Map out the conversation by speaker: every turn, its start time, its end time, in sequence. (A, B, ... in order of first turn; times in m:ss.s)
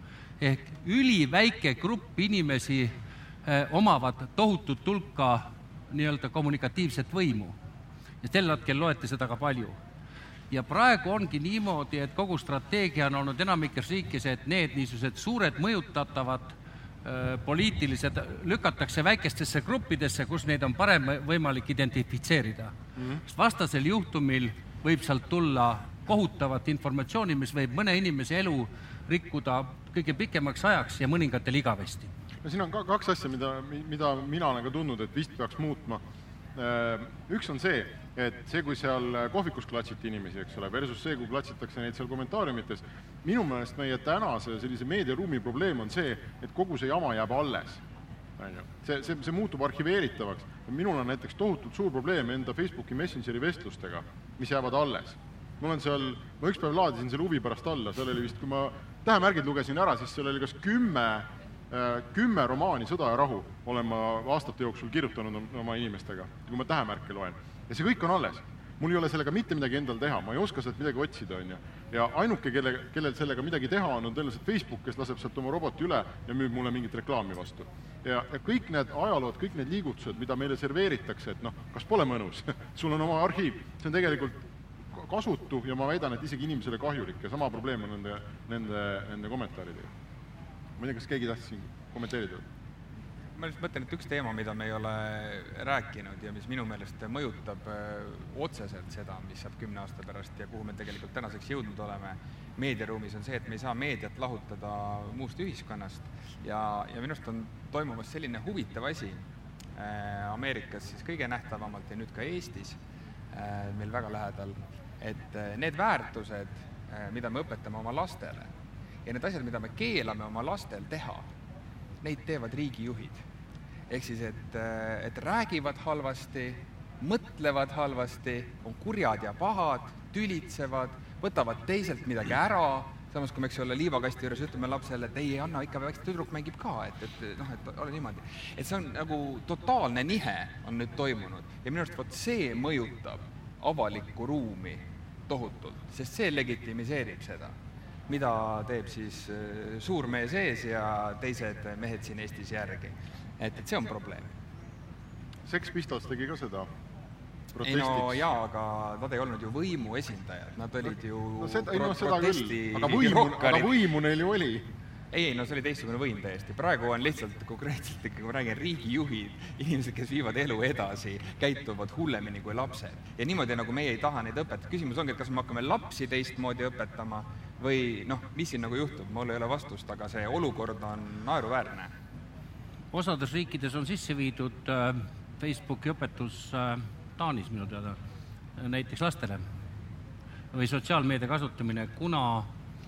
0:00.4-0:02.9 A
0:03.4-0:07.6 A
0:08.2-0:09.8 A
0:10.5-0:22.7 A
0:23.3-0:32.1 A
0:32.4-0:36.0 B
0:36.5-0:47.8 B
0:48.4-1:24.4 B
1:24.9-1:29.9 B
1:30.8-1:32.4 B
1:33.4-1:49.2 C
1:49.8-1:52.8 C
1:53.3-1:58.5 C
1:59.0-2:01.2 C
2:02.0-2:03.2 C
2:03.9-2:27.5 C
2:28.1-2:34.3 C
2:35.4-2:36.7 B
2:37.5-2:38.2 B
2:37.6-2:43.7 C
2:40.8-2:44.6 B
2:45.1-3:01.9 C
3:02.9-3:08.0 A
3:08.6-3:09.4 A
3:10.5-3:12.5 A